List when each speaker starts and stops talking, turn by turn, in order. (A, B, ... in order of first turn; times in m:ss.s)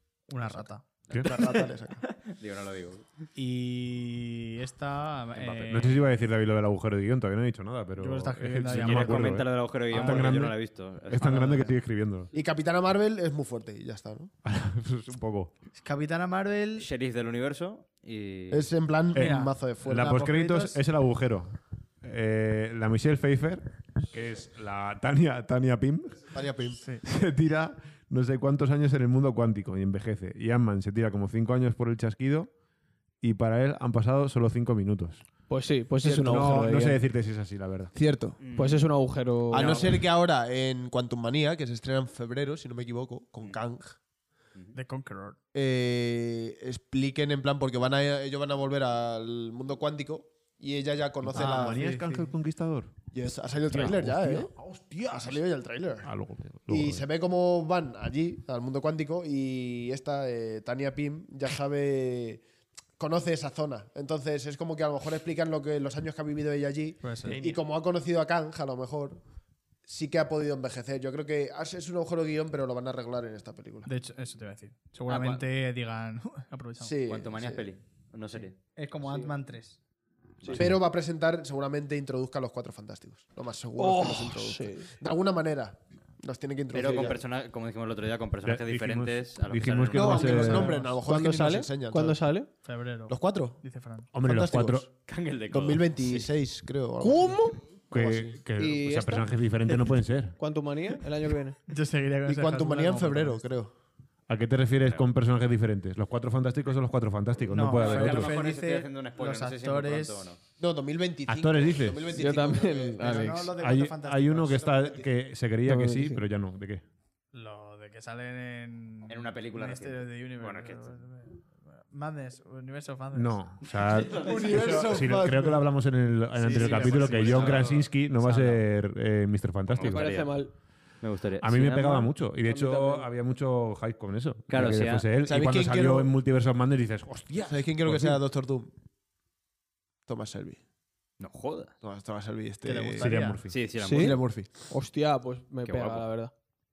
0:00.3-0:00.8 A
0:01.1-0:03.1 B
0:01.2-0:02.0 C
0:03.4-0:06.0 A
0:05.4-0:05.8 B
0:05.6-0:12.3 D
0:08.0-0:10.3 A
0:08.7-0:11.6 B
0:11.2-0:11.8 A
0:12.3-0:14.3 C
0:14.4-0:15.5 D
0:15.8-0:16.9 A
0:16.8-0:18.7 B
0:18.5-0:20.2 C
0:19.2-0:26.4 D
0:19.2-0:20.8 A
0:26.3-0:26.8 C
0:27.0-0:32.5 D
0:33.2-0:35.2 D
0:35.5-0:37.0 E
0:36.0-0:36.4 C
0:36.0-0:37.9 D
0:37.9-0:38.5 C
0:38.4-0:38.9 B
0:38.5-0:40.0 E
0:39.5-0:44.0 C
0:39.5-0:40.0 B
0:44.7-0:45.4 A
0:45.5-0:51.8 C
0:51.2-0:52.9 D
0:51.3-0:52.3 A
0:53.1-0:54.5 C
0:53.7-0:55.4 D
0:55.1-0:56.1 C
0:56.0-0:57.1 D
0:56.7-1:02.4 C
1:03.0-1:09.2 C
1:07.0-1:07.4 A
1:07.3-1:07.6 D
1:09.9-1:13.9 C
1:13.9-1:17.0 A
1:15.1-1:15.4 B
1:16.8-1:17.7 C
1:17.1-1:18.6 B
1:18.8-1:19.8 A
1:19.0-1:19.3 E
1:20.5-1:27.2 C
1:20.5-1:20.8 D
1:23.8-1:24.9 E
1:26.7-1:30.3 B
1:28.4-1:30.7 D
1:29.9-1:32.2 C
1:30.0-1:31.0 A
1:30.7-1:32.5 E
1:32.6-1:34.1 A
1:33.1-1:33.6 C
1:34.1-1:34.9 D
1:34.2-1:34.9 C
1:35.1-1:36.3 B
1:35.5-1:38.4 C
1:37.0-1:37.6 E
1:37.9-1:40.4 D
1:38.6-1:41.6 E
1:41.7-1:43.4 A
1:42.3-1:43.7 C
1:44.3-1:48.3 D
1:47.5-1:50.3 A
1:47.8-1:50.4 B
1:50.6-1:53.3 C
1:51.3-1:52.3 D
1:52.1-1:53.5 E
1:53.0-1:55.0 A
1:53.6-1:56.8 D
1:55.6-1:56.2 E
1:57.3-2:03.5 A
1:59.1-2:01.0 B
2:03.1-2:10.2 D
2:03.8-2:04.8 B
2:04.1-2:05.7 C
2:06.4-2:07.7 C
2:06.5-2:08.0 B
2:06.6-2:07.5 A
2:09.7-2:10.4 B
2:09.8-2:10.5 E
2:11.0-2:12.1 B
2:11.4-2:18.2 D
2:12.4-2:13.1 E
2:14.5-2:15.1 B
2:15.2-2:16.1 C
2:17.4-2:18.7 C
2:20.1-2:20.6 C
2:21.2-2:21.7 B
2:21.8-2:23.2 C
2:22.6-2:23.4 A
2:23.0-2:23.6 D
2:23.5-2:24.2 B
2:23.8-2:24.6 C
2:23.8-2:26.3 E
2:25.6-2:26.0 B